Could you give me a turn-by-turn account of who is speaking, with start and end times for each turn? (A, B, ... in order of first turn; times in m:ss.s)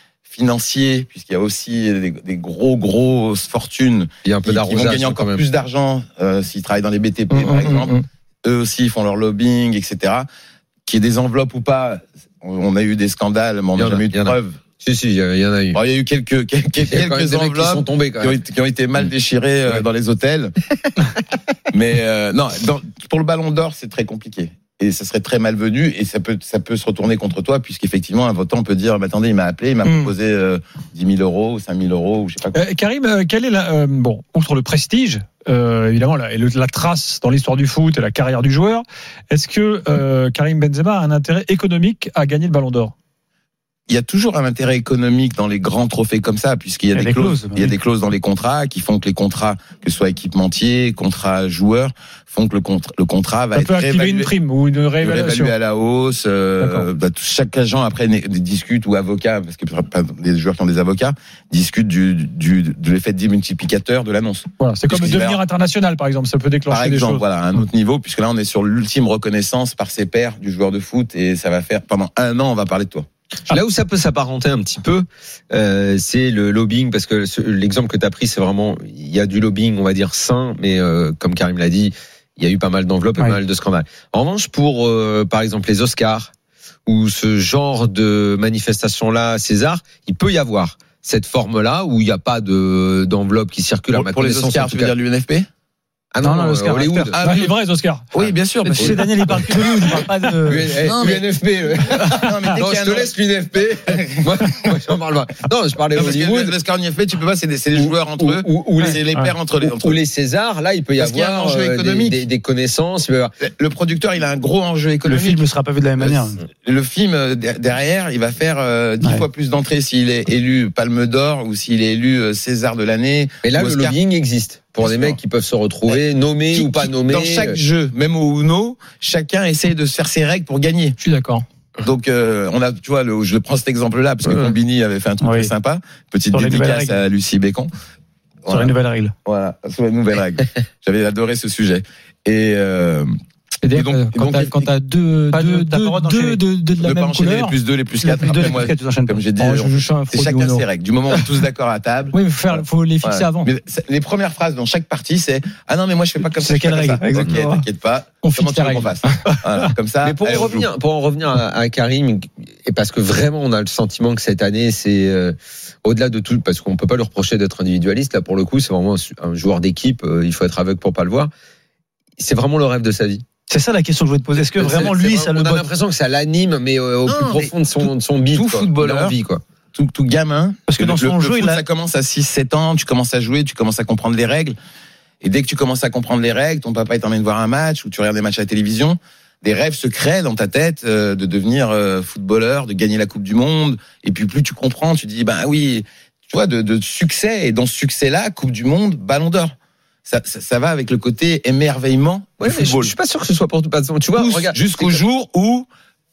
0:00.3-0:07.9 A
0:04.2-0:05.4 B
0:07.3-0:08.0 C
0:08.4-0:10.3 A
0:10.8-0:14.6 A
0:13.8-0:15.8 B
0:15.7-0:20.5 A
0:16.9-0:18.4 B
0:21.7-0:32.6 A
0:29.8-0:30.1 C
0:32.5-0:42.9 D
0:43.9-0:54.3 A
0:46.9-0:47.8 E
0:53.5-0:55.5 D
0:55.0-1:05.4 A
0:56.6-0:56.9 D
1:04.6-1:07.2 D
1:06.7-1:13.1 A
1:13.5-1:26.3 B
1:26.9-1:34.9 B
1:33.9-1:35.5 A
1:36.1-1:37.4 B
1:36.2-1:37.2 E
1:37.2-1:37.5 A
1:37.2-1:38.1 D
1:38.1-1:39.8 A
1:38.2-1:46.5 B
1:38.6-1:40.9 E
1:40.7-1:41.3 A
1:42.1-1:44.5 A
1:45.9-1:50.0 A
1:47.7-1:49.0 B
1:49.6-1:53.3 B
1:51.0-1:52.2 A
1:53.4-1:55.4 A
1:55.0-1:56.4 E
1:56.0-2:04.0 A
2:03.4-2:07.6 B
2:04.8-2:05.2 A
2:05.9-2:11.0 A
2:11.0-2:11.4 C
2:11.8-2:17.7 A
2:15.2-2:15.5 E
2:16.3-2:17.0 E
2:18.4-2:23.1 A
2:18.5-2:19.1 E
2:23.6-2:27.5 C
2:23.7-2:24.7 A
2:25.3-2:26.4 E
2:26.8-2:40.7 A
2:28.0-2:29.2 E
2:29.4-2:30.7 C
2:32.1-2:33.5 C
2:36.2-2:37.6 E
2:38.2-2:39.1 C
2:40.0-2:51.3 B
2:52.2-2:53.2 B
2:53.5-2:55.7 E
2:54.5-2:59.4 B
2:57.0-2:59.2 A
2:59.7-3:04.6 A
3:00.7-3:01.6 E
3:05.2-3:19.5 A
3:20.0-3:22.9 A
3:22.4-3:25.0 B
3:24.1-3:25.7 A